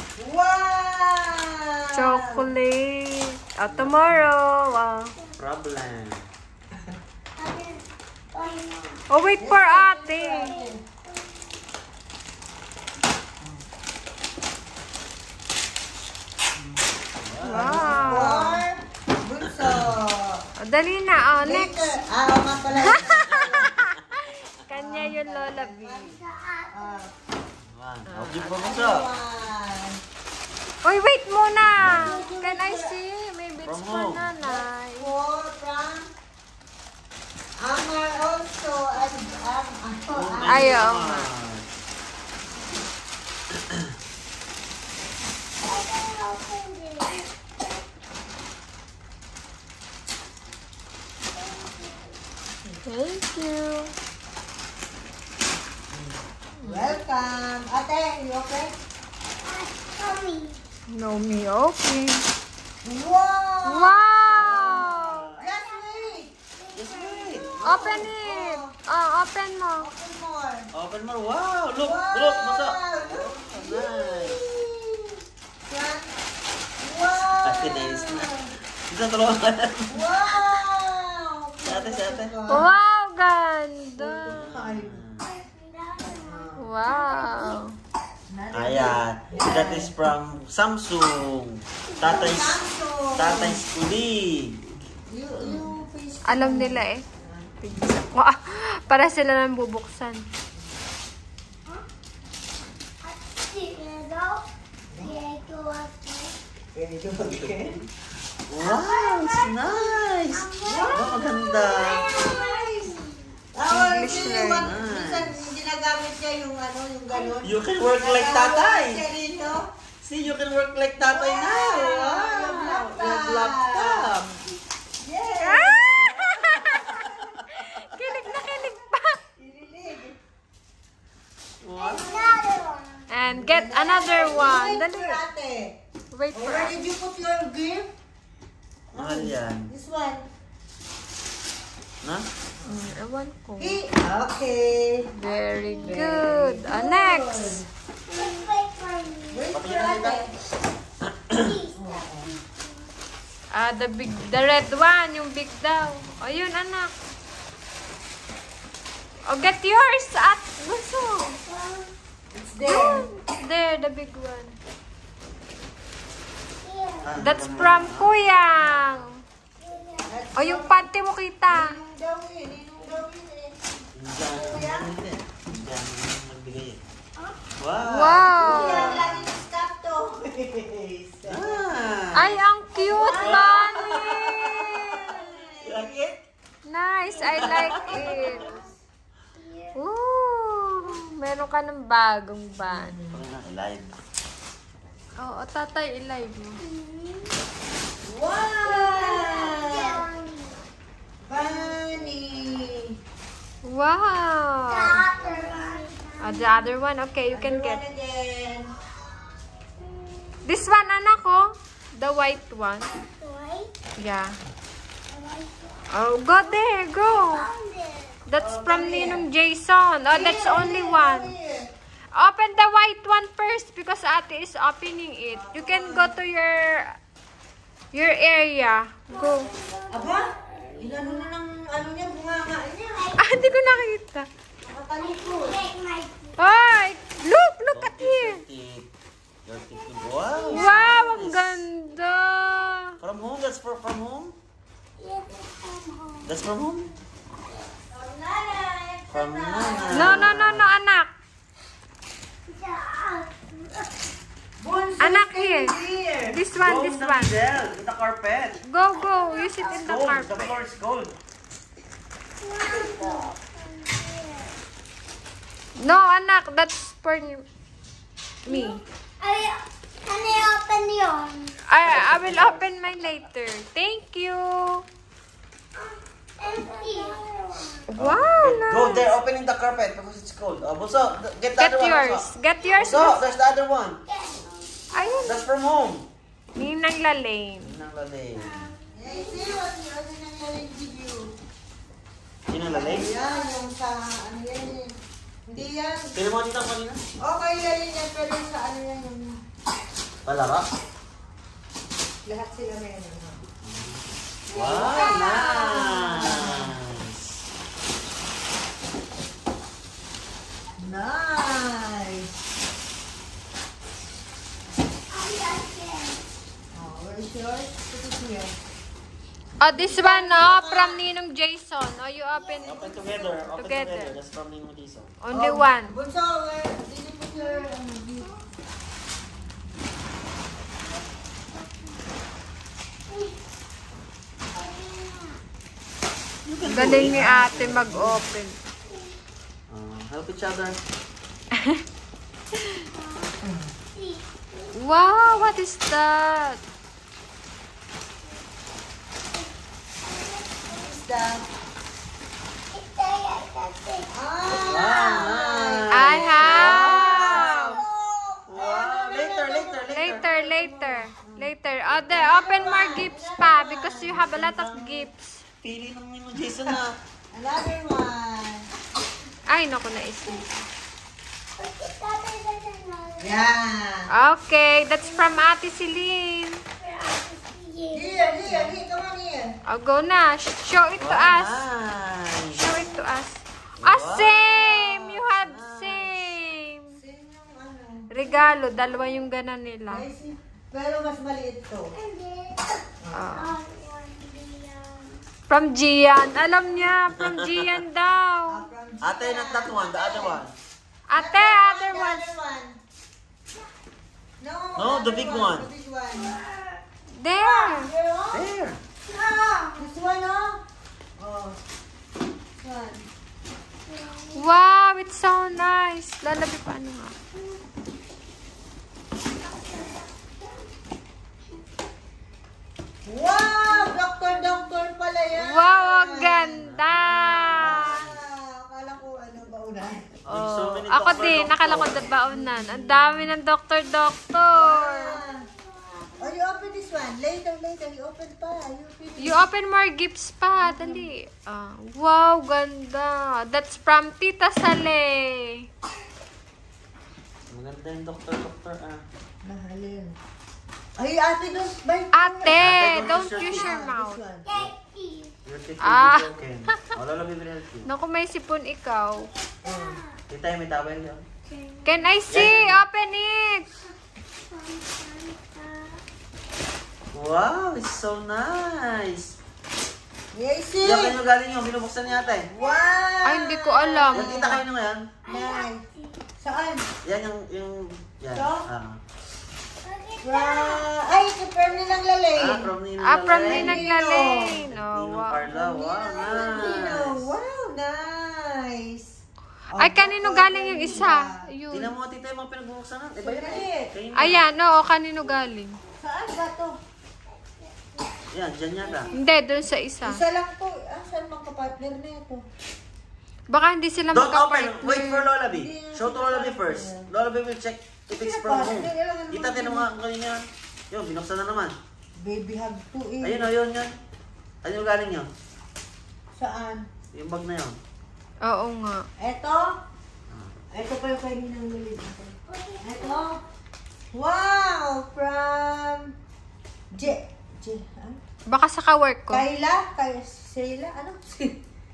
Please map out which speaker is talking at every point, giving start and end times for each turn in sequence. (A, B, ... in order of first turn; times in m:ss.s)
0:00.2-0:02.5 A
0:01.9-0:05.1 B
0:03.7-0:04.3 C
0:05.4-0:06.3 C
0:07.4-0:09.1 D
0:09.1-0:10.5 B
0:09.4-0:10.8 A
0:10.2-0:11.6 D
0:17.2-0:18.4 C
0:17.4-0:18.6 B
0:17.5-0:20.4 A
0:19.4-0:19.9 C
0:20.6-0:21.9 B
0:21.4-0:23.8 A
0:22.5-0:24.1 C
0:22.8-0:26.0 B
0:24.7-0:26.2 A
0:26.0-0:27.2 D
0:26.7-0:27.1 A
0:27.6-0:29.1 C
0:28.1-0:28.5 B
0:28.4-0:30.0 A
0:30.8-0:35.1 B
0:31.8-0:32.2 C
0:31.9-0:33.0 A
0:33.6-0:34.3 C
0:34.4-0:36.1 A
0:37.6-0:40.8 A
0:40.1-0:41.7 C
0:40.4-0:41.3 B
0:43.5-0:44.0 C
0:45.6-0:47.8 D
0:51.3-0:52.2 D
0:52.8-0:53.9 B
0:56.6-0:57.0 B
0:56.6-0:58.8 A
0:59.4-1:00.6 D
1:00.9-1:02.2 B
1:02.8-1:06.3 A
1:03.6-1:05.3 B
1:04.3-1:05.4 C
1:05.4-1:08.0 D
1:06.8-1:08.0 C
1:07.6-1:08.7 A
1:07.6-1:09.9 B
1:09.8-1:10.7 A
1:10.7-1:14.4 C
1:11.8-1:16.1 A
1:16.8-1:18.5 A
1:17.4-1:20.5 C
1:19.9-1:22.7 A
1:21.6-1:22.3 C
1:22.5-1:24.5 B
1:24.0-1:25.3 C
1:24.5-1:25.0 A
1:25.2-1:27.6 D
1:26.2-1:26.6 A
1:26.6-1:27.8 B
1:28.3-1:29.9 A
1:28.5-1:32.6 C
1:32.0-1:33.6 A
1:33.2-1:35.6 C
1:35.1-1:37.5 A
1:36.2-1:37.0 B
1:37.6-1:40.2 B
1:43.0-1:44.4 D
1:45.0-1:46.3 D
1:46.8-1:47.8 A
1:47.2-1:47.9 C
1:48.5-1:52.1 C
1:48.6-1:53.3 D
1:50.6-1:51.2 A
1:52.1-1:52.7 A
1:53.5-1:59.7 A
1:53.7-1:54.7 B
1:54.4-1:55.5 C
1:57.1-1:57.4 D
1:57.4-1:59.4 C
2:00.0-2:04.4 C
2:01.0-2:04.1 A
2:02.2-2:02.6 B
2:05.0-2:07.3 A
2:05.4-2:09.2 B
2:06.6-2:07.6 C
2:09.4-2:10.2 A
2:11.6-2:12.4 C
2:11.8-2:13.1 D
2:13.1-2:15.2 B
2:13.3-2:15.8 A
2:16.1-2:16.9 B
2:16.3-2:17.9 A
2:18.9-2:19.7 C
2:18.9-2:20.3 A
2:22.0-2:22.3 C
2:22.6-2:22.9 A
2:22.6-2:23.8 B
2:23.6-2:27.7 A
2:25.2-2:27.6 B
2:25.6-2:26.0 D
2:28.1-2:30.1 D
2:29.3-2:30.3 A
2:29.5-2:30.3 C
2:31.0-2:31.6 C
2:31.3-2:32.9 D
2:31.8-2:32.3 A
2:33.5-2:36.9 B
2:39.3-2:41.4 B
2:41.4-2:41.9 D
2:42.3-2:43.1 A
2:42.7-2:44.6 B
2:46.6-2:47.4 D
2:47.0-2:48.8 C
2:47.2-2:49.2 B
2:49.6-2:50.2 D
2:50.1-2:50.9 A
2:50.4-2:51.8 B
2:51.5-2:53.7 A
2:54.0-2:56.8 C
2:54.3-2:54.9 A
2:57.6-2:59.4 C
2:57.9-2:59.0 B
2:58.4-3:01.7 A
3:01.3-3:02.4 C
3:02.2-3:04.6 B
3:02.8-3:06.0 A
3:03.0-3:06.2 C
3:06.7-3:08.5 B
3:07.1-3:08.7 D
3:07.3-3:08.2 C
3:07.8-3:08.7 A
3:09.3-3:09.8 D
3:09.8-3:13.0 B
3:12.6-3:13.2 A
3:13.1-3:13.9 C
3:15.2-3:16.6 B
3:16.6-3:17.4 D
3:18.0-3:20.0 A
3:18.6-3:20.6 D
3:21.2-3:23.0 A
3:21.3-3:22.3 D
3:23.6-3:25.0 B
3:24.7-3:26.7 D
3:25.1-3:25.8 A
3:26.2-3:27.8 B
3:27.3-3:28.7 A
3:29.8-3:30.4 D
3:30.4-3:32.9 B
3:32.9-3:33.7 D
3:34.0-3:34.4 B
3:35.1-3:35.9 D
3:35.9-3:37.5 B
3:37.1-3:38.2 D
3:38.3-3:41.3 B
3:38.4-3:39.2 A
3:40.1-3:41.7 A
3:42.1-3:47.0 B
3:45.3-3:46.2 A
3:47.9-3:49.5 B
3:49.1-3:51.3 D
3:49.9-3:53.2 A
3:53.0-3:53.8 D
3:53.2-3:54.3 B
3:54.6-3:55.6 A
3:55.0-3:56.4 D
3:56.4-3:58.4 B
3:57.7-3:58.9 C
3:59.4-4:01.6 C
3:59.5-4:01.0 D
4:00.5-4:03.0 B
4:03.0-4:04.4 C
4:05.0-4:06.4 D
4:06.2-4:06.9 C
4:07.9-4:10.3 A
4:09.1-4:10.7 C
4:09.9-4:11.1 B
4:12.5-4:13.9 D
4:14.6-4:16.4 A
4:15.0-4:15.8 B
4:16.3-4:17.3 B
4:16.6-4:18.6 C
4:18.7-4:20.6 B
4:19.0-4:19.9 D
4:19.8-4:21.1 C
4:22.4-4:24.6 D
4:22.7-4:23.3 A
4:25.8-4:27.4 B
4:28.5-4:28.8 B
4:28.5-4:31.6 D
4:31.7-4:34.8 B
4:31.8-4:32.6 C
4:35.8-4:37.8 D
4:37.9-4:39.1 B
4:38.0-4:44.0 C
4:41.6-4:43.2 B
4:42.6-4:43.4 D
4:44.1-4:45.4 D
4:44.9-4:45.4 B
4:45.2-4:46.1 C
4:46.6-4:47.7 B
4:47.6-4:48.7 C
4:48.4-4:49.7 D
4:48.9-4:51.3 A
4:52.5-4:53.1 C
4:52.6-4:55.0 A
4:53.0-4:53.6 D
4:55.5-4:56.2 A
4:56.1-4:57.0 C
4:57.2-4:59.4 A
5:00.2-5:00.7 C
5:02.2-5:03.4 A
5:03.6-5:04.0 C
5:04.5-5:07.4 C
5:04.5-5:05.5 D
5:04.6-5:06.8 A
5:04.8-5:06.2 B
5:10.8-5:12.3 A
5:15.1-5:16.2 D
5:16.7-5:18.5 A
5:19.6-5:24.1 B
5:19.7-5:21.0 A
5:22.3-5:23.3 D
5:22.6-5:25.1 C
5:25.2-5:26.0 B
5:25.3-5:28.3 A
5:27.4-5:28.4 D
5:30.8-5:32.0 D
5:33.1-5:33.4 D
5:34.5-5:35.4 D
5:36.4-5:38.2 C
5:36.6-5:38.6 B
5:38.9-5:39.1 D
5:39.7-5:40.8 C
5:41.5-5:41.8 B
5:42.6-5:42.8 B
5:42.8-5:43.4 D
5:43.4-5:43.7 A
5:43.9-5:45.6 D
5:44.8-5:46.6 B
5:50.0-5:51.0 D
5:50.7-5:51.5 A
5:52.7-5:55.3 D
5:54.1-6:01.5 A
5:54.7-5:57.7 C
5:55.9-5:57.8 B
5:58.5-6:00.3 C
5:59.9-6:05.4 B
6:02.1-6:04.1 A
6:04.0-6:05.1 C
6:05.6-6:07.0 C
6:07.3-6:08.7 A
6:09.5-6:10.4 B
6:11.6-6:13.5 D
6:13.2-6:14.1 A
6:14.1-6:16.6 B
6:15.0-6:15.3 D
6:16.8-6:18.7 D
6:17.9-6:19.5 A
6:19.7-6:21.7 B
6:21.0-6:22.9 C
6:22.5-6:27.0 B
6:23.8-6:25.0 C
6:25.5-6:26.1 A
6:26.9-6:28.1 A
6:28.1-6:30.0 B
6:28.2-6:29.2 D
6:29.9-6:31.9 A
6:31.9-6:35.2 D
6:33.0-6:33.4 A
6:33.1-6:33.6 B
6:35.5-6:38.6 B
6:37.1-6:37.8 C
6:38.5-6:40.4 A
6:39.0-6:40.5 C
6:41.1-6:42.3 B
6:41.2-6:42.8 A
6:44.4-6:46.4 A
6:44.8-6:45.7 C
6:46.1-6:46.8 D
6:47.1-6:47.9 B
6:47.5-6:48.5 A
6:48.3-6:48.8 C
6:49.1-6:49.9 D
6:49.8-6:50.6 A
6:51.2-6:51.6 A
6:52.6-6:53.0 A
6:53.9-6:54.4 D
6:54.4-6:57.2 B
6:59.4-7:00.7 D
7:03.1-7:06.6 A
7:03.6-7:04.7 D
7:05.3-7:08.0 B
7:06.6-7:08.2 C
7:07.6-7:10.2 A
7:10.3-7:15.2 B
7:10.3-7:12.1 C
7:12.2-7:13.3 A
7:14.6-7:15.5 A
7:15.0-7:17.0 D
7:16.2-7:19.4 A
7:19.2-7:25.6 B
7:20.6-7:21.1 A
7:27.5-7:29.0 C
7:29.4-7:30.2 A
7:31.0-7:34.5 A
7:32.1-7:34.2 B
7:32.6-7:33.7 C
7:34.4-7:35.4 D
7:35.4-7:37.9 C
7:35.8-7:36.8 B
7:37.8-7:39.3 B
7:39.3-7:40.2 D
7:39.6-7:40.0 A
7:40.3-7:41.2 C
7:41.4-7:42.1 D
7:41.8-7:43.7 B
7:42.3-7:42.8 C
7:44.5-7:46.0 D
7:47.1-7:49.4 C
7:50.3-7:51.2 A
7:50.8-7:52.5 C
7:52.1-7:53.1 D
7:52.5-7:54.6 A
7:53.2-7:54.6 B
7:54.1-7:55.1 C
7:55.2-7:56.2 D
7:55.3-7:55.8 A
7:56.4-7:56.9 A
7:57.0-7:59.0 C
7:58.3-7:58.7 A
7:59.8-8:00.9 D
8:00.2-8:02.7 A
8:02.4-8:03.9 C
8:03.0-8:05.6 B
8:03.4-8:04.6 A
8:04.5-8:07.3 C
8:05.4-8:09.1 A
8:06.2-8:07.0 D
8:09.8-8:11.4 A
8:09.8-8:11.9 B
8:11.7-8:14.5 C
8:13.2-8:13.9 A
8:14.2-8:15.8 B
8:16.0-8:16.8 A
8:17.3-8:18.3 D
8:18.3-8:19.1 C
8:18.8-8:19.2 D
8:19.1-8:20.2 B
8:20.0-8:22.4 A
8:23.5-8:25.2 B
8:24.1-8:31.8 C
8:25.4-8:27.0 A
8:28.1-8:29.9 A
8:32.2-8:33.4 A
8:33.2-8:34.0 C
8:34.6-8:35.3 C
8:36.4-8:36.9 A
8:37.1-8:37.8 C
8:38.4-8:39.1 B
8:39.2-8:39.8 A
8:40.3-8:40.6 C
8:40.7-8:43.4 A
8:42.5-8:43.3 D
8:44.1-8:46.1 A
8:46.9-8:48.2 A
8:48.5-8:49.4 B
8:49.3-8:51.6 A